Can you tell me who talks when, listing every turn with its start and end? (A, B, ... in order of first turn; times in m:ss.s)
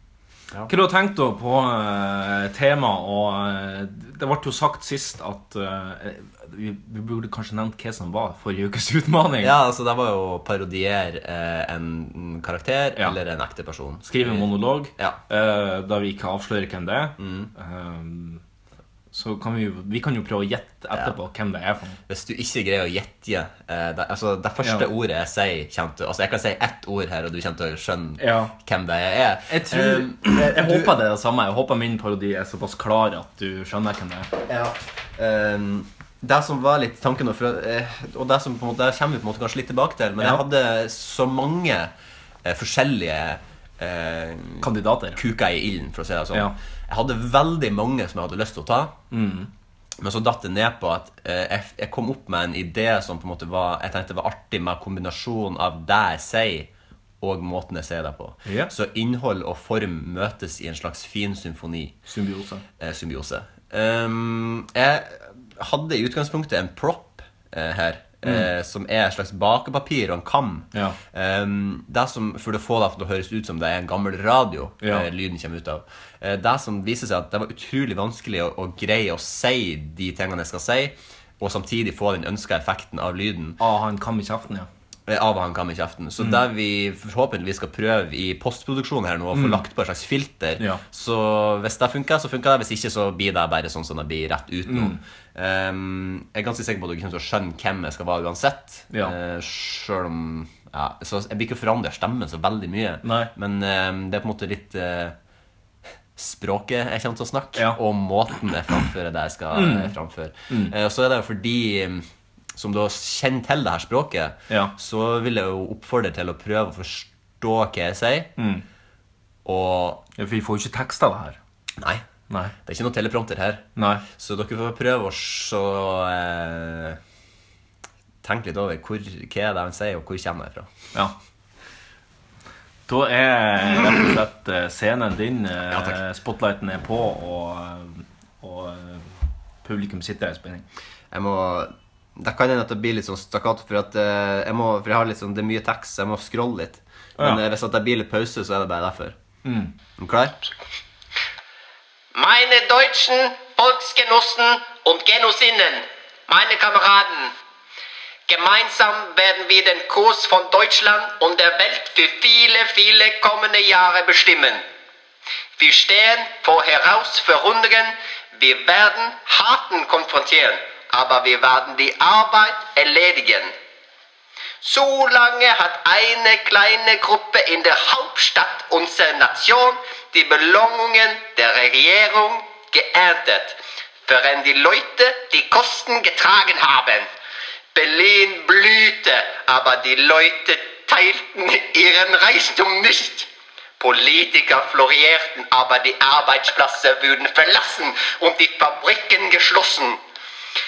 0:00.7-0:09.6 A
0:09.4-0:15.2 B
0:14.0-0:18.4 A
0:17.2-0:17.5 B
0:19.1-0:22.0 A
0:22.1-0:31.0 B
0:24.6-0:24.9 A
0:28.2-0:28.5 A
0:29.5-0:34.3 A
0:34.5-0:41.9 B
0:40.2-0:40.4 A
0:42.4-0:49.0 B
0:44.6-0:45.2 A
0:49.1-0:49.5 A
0:50.0-0:56.7 B
0:57.2-1:02.0 B
0:58.5-0:58.7 A
1:02.1-1:02.6 A
1:02.8-1:23.6 B
1:14.8-1:15.1 A
1:23.6-1:24.7 A
1:25.1-1:45.2 B
1:29.3-1:29.6 A
1:34.7-1:35.0 A
1:43.0-1:43.3 A
1:46.2-1:58.3 B
1:49.5-1:49.9 A
1:58.4-1:58.6 A
1:59.4-2:00.1 B
2:00.2-2:01.4 A
2:01.8-2:02.0 B
2:02.6-2:07.0 B
2:03.8-2:04.0 A
2:08.2-2:10.7 B
2:12.9-2:20.7 A
2:15.7-2:16.0 B
2:21.1-2:29.2 B
2:29.4-2:29.7 A
2:30.0-2:30.5 B
2:32.1-2:37.3 C
2:38.3-2:44.6 C
2:45.6-2:53.5 C
2:54.6-3:07.1 C
3:07.7-3:13.3 C
3:13.8-3:20.0 C